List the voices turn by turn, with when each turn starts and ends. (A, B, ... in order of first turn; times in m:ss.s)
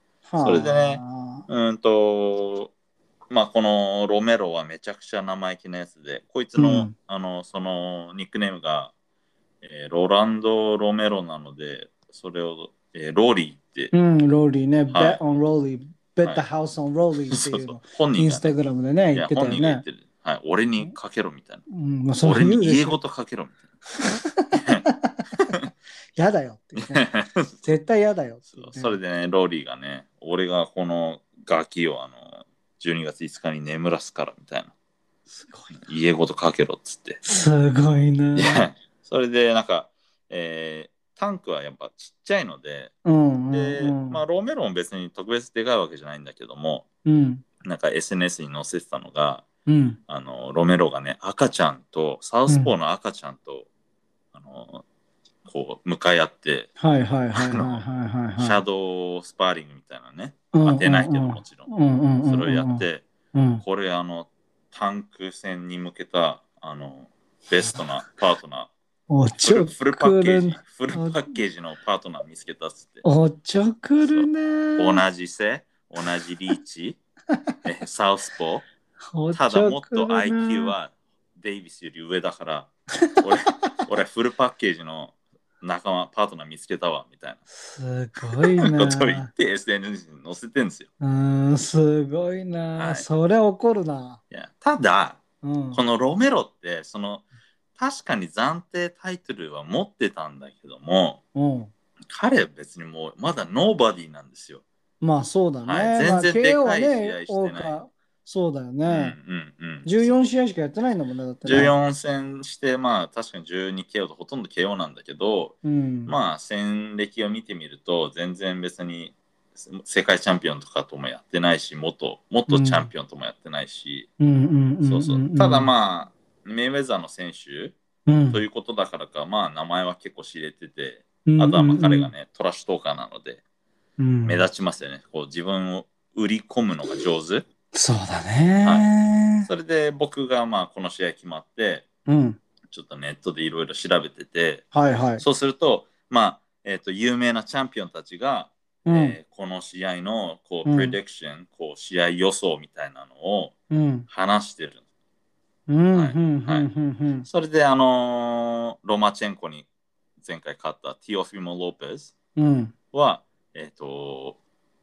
0:00.3-0:01.5 A
0:00.4-0:02.7 B
0:03.3-0:08.9 B
0:06.6-0:06.9 A
0:09.6-0:13.9 B
0:13.9-0:19.8 A
0:14.9-0:15.2 B
0:17.3-0:18.5 B
0:19.1-0:21.6 B
0:21.7-0:23.0 A
0:22.2-0:23.6 B
0:24.0-0:25.6 A
0:24.5-0:24.8 B
0:26.2-0:27.1 A
0:26.8-0:27.7 B
0:27.6-0:29.0 A
0:28.6-0:34.7 B
0:35.3-0:35.8 A
0:35.8-0:37.2 B
0:37.2-0:38.6 A
0:38.4-0:42.9 B
0:43.0-0:44.2 A
0:43.5-0:46.8 B
0:47.0-0:47.4 A
0:47.6-0:49.4 B
0:49.7-0:50.0 A
0:50.1-0:53.7 B
0:54.3-0:54.8 B
0:55.4-0:56.7 B
0:56.8-0:58.6 A
0:57.4-0:57.8 B
0:58.4-1:01.7 B
1:00.5-1:03.6 A
1:02.2-1:03.0 B
1:03.6-1:08.7 B
1:09.1-1:11.3 A
1:09.4-1:13.0 B
1:13.0-1:15.0 A
1:14.0-1:17.0 B
1:17.6-1:18.6 B
1:19.1-1:20.7 A
1:19.3-1:27.4 B
1:27.5-1:29.3 A
1:28.4-1:30.9 B
1:31.0-1:34.2 A
1:32.8-1:33.0 B
1:34.3-1:35.2 B
1:35.4-1:35.8 A
1:35.7-1:37.2 B
1:37.8-1:41.2 B
1:41.3-1:41.7 A
1:42.1-1:44.6 B
1:45.0-1:49.2 A
1:45.6-1:47.8 B
1:48.8-1:50.1 B
1:49.8-1:51.7 A
1:51.4-2:04.1 B
1:55.6-1:56.1 A
2:02.5-2:02.9 A
2:04.2-2:05.7 A
2:04.8-2:07.7 B
2:08.1-2:08.4 A
2:08.3-2:13.4 B
2:11.3-2:12.1 A
2:14.0-2:14.4 A
2:14.2-2:17.5 B
2:17.7-2:19.5 A
2:18.6-2:18.9 B
2:19.4-2:21.8 B
2:22.1-2:22.4 A
2:22.7-2:24.7 B
2:24.7-2:25.2 A
2:25.2-2:33.5 B
2:28.8-2:29.2 A
2:30.6-2:31.0 A
2:33.7-2:34.1 A
2:34.1-2:34.8 B
2:35.7-2:37.3 A
2:35.9-2:36.7 B
2:37.2-2:39.7 B
2:40.2-2:42.1 B
2:42.4-2:42.7 A
2:42.9-2:44.4 B